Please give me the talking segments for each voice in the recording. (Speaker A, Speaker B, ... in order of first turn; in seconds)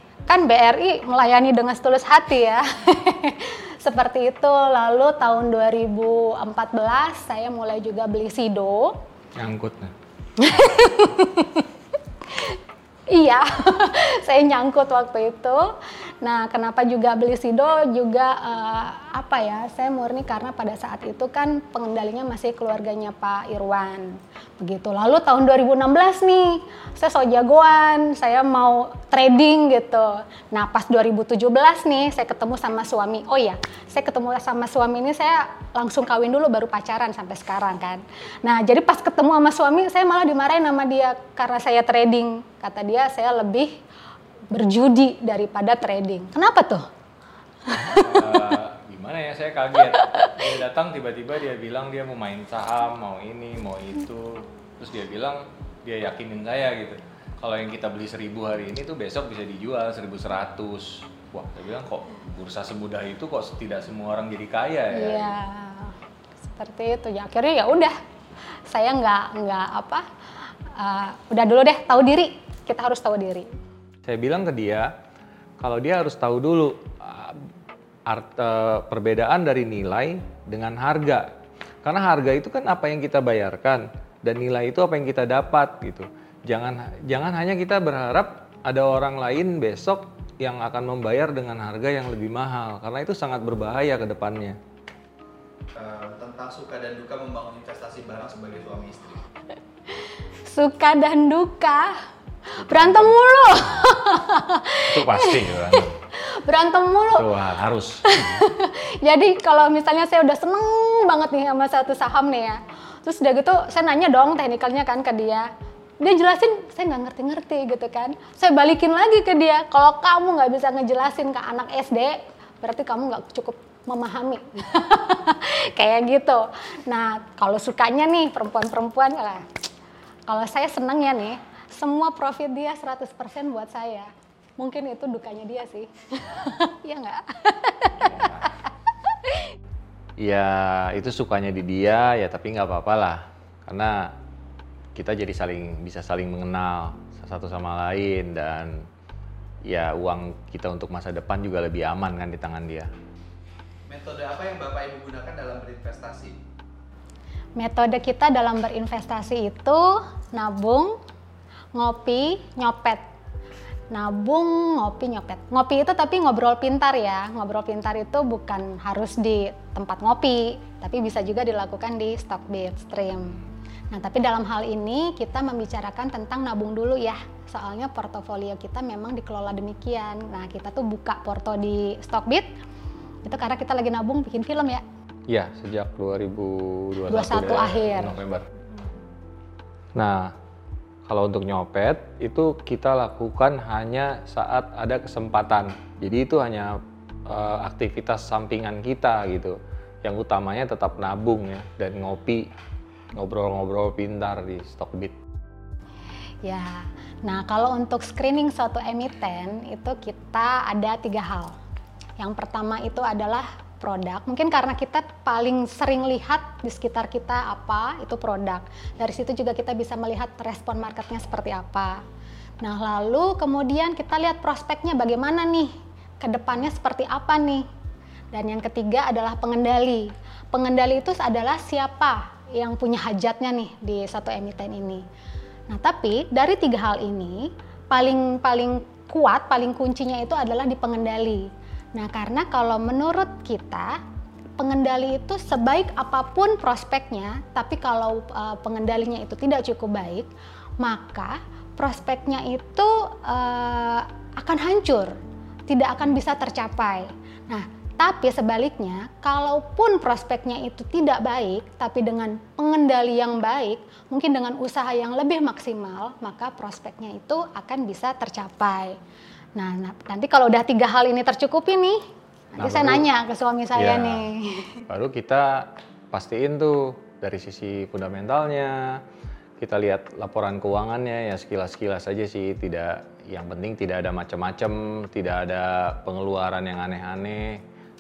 Speaker A: 0.3-9.0, 10.4-11.7, 12.3-12.6, 13.1-43.7, 44.5-46.9, 47.6-48.5, 64.9-67.9, 68.7-73.5, 99.9-101.9, 102.5-107.4, 108.0-115.5, 116.0-129.4, 130.3-139.6, 157.6-161.0, 161.8-163.0, 163.9-182.5, 183.2-184.8, 187.1-188.2, 206.4-211.5, 212.2-222.0, 222.6-227.7, 228.3-235.1, 235.7-244.0, 244.6-250.3, 250.8-255.2, 255.7-269.0, 269.6-272.0, 272.5-274.8
Speaker B: 9.4-9.9, 47.8-65.4, 74.0-74.9, 75.6-77.5, 78.1-81.3, 81.8-94.6, 102.7-103.0, 104.9-106.0, 107.2-108.4, 140.2-144.2, 144.9-148.8, 149.7-152.9, 185.3-188.5, 189.9-190.3, 191.1-202.5, 203.1-205.2, 272.6-273.1, 273.8-274.3, 274.9-279.0, 279.6-287.6
Speaker C: 95.8-99.2, 153.9-156.4